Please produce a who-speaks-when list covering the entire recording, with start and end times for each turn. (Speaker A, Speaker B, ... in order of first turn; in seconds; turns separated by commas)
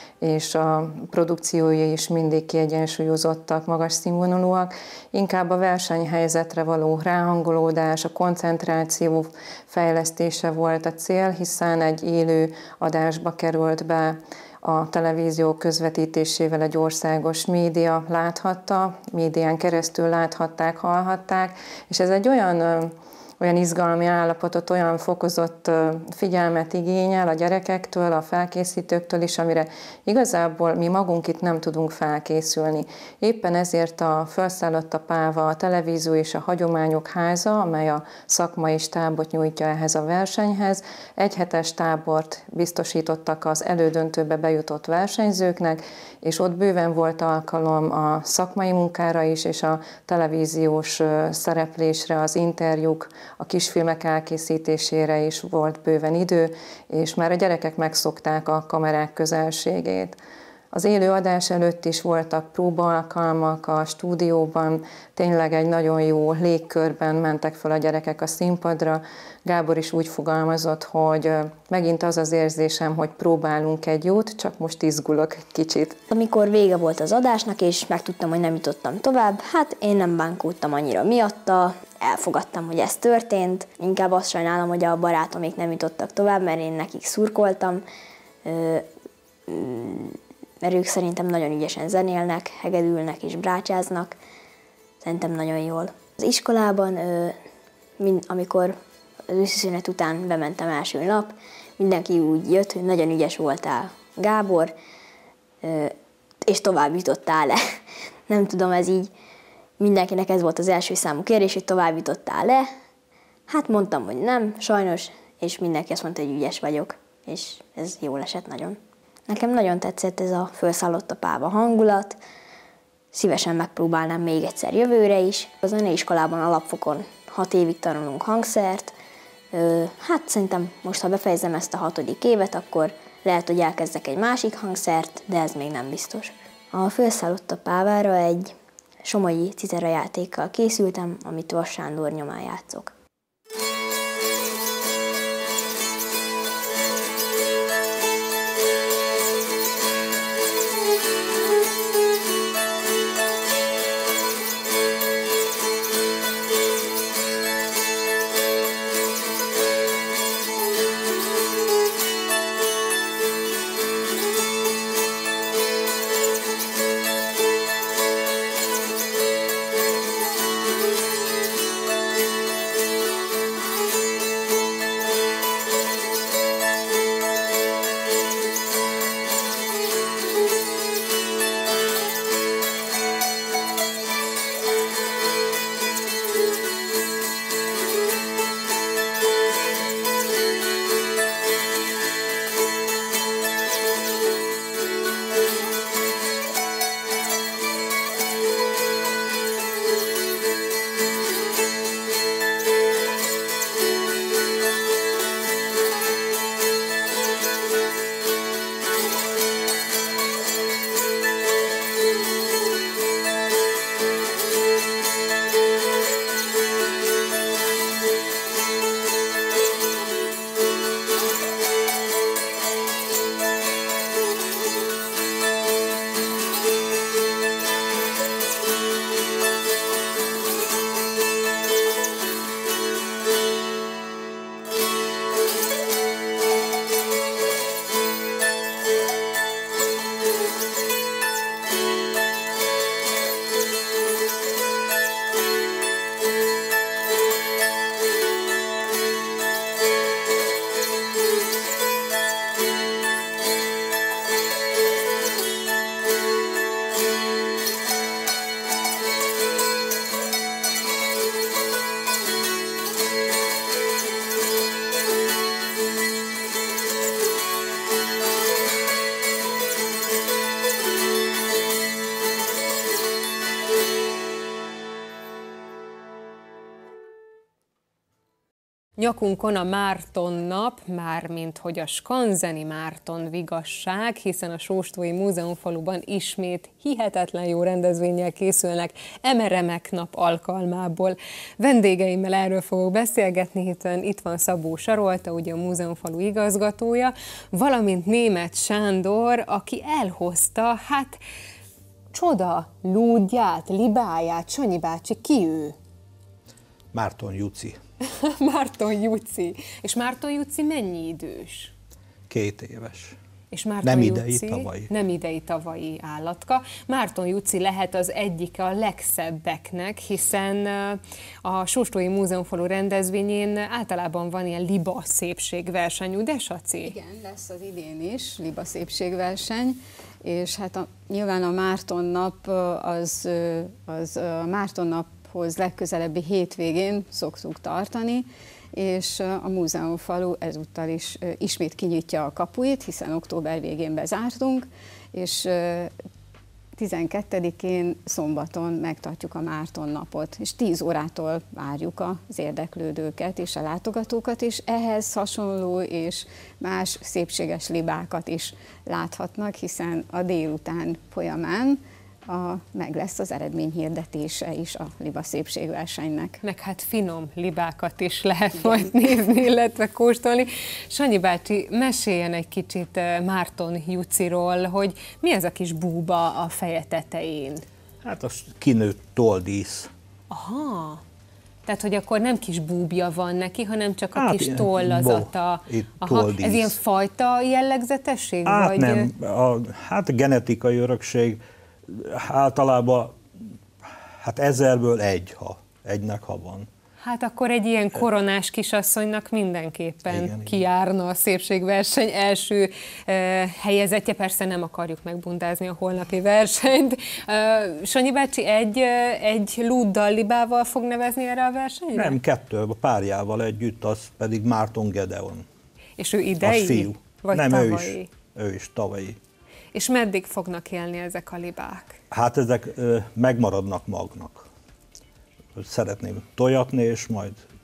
Speaker A: 0.2-60.2, Speaker A: 60.7-76.0, Speaker B: 76.1-87.8, Speaker B: 88.5-88.9, Speaker B: 89.5-94.2, Speaker B: 95.0-97.4, Speaker B: 98.0-98.8, Speaker B: 99.3-104.7, Speaker B: 105.6-107.6, Speaker B: 108.3-109.1, Speaker B: 109.8-112.7, Speaker B: 113.5-122.2, Speaker B: 123.1-128.9, Speaker B: 129.5-142.9, Speaker C: 279.0-301.2, Speaker C: 302.1-305.8, Speaker D: 306.9-307.8, Speaker C: 308.1-311.7, Speaker D: 312.3-313.1, Speaker C: 313.5-326.9, Speaker D: 313.8-314.9, Speaker E: 326.9-345.9, Speaker E: 346.8-366.4, Speaker C: 366.4-377.6, Speaker E: 368.6-368.9, Speaker D: 378.0-379.9, Speaker C: 380.3-381.0, Speaker C: 381.7-389.1, Speaker D: 384.1-386.8, Speaker D: 388.5-393.2, Speaker D: 394.2-396.7, Speaker C: 397.0-412.2, Speaker D: 400.1-400.6, Speaker D: 411.9-415.4, Speaker C: 416.0-418.1, Speaker D: 416.4-419.2, Speaker C: 419.7-422.0, Speaker D: 422.1-424.5, Speaker D: 425.6-427.4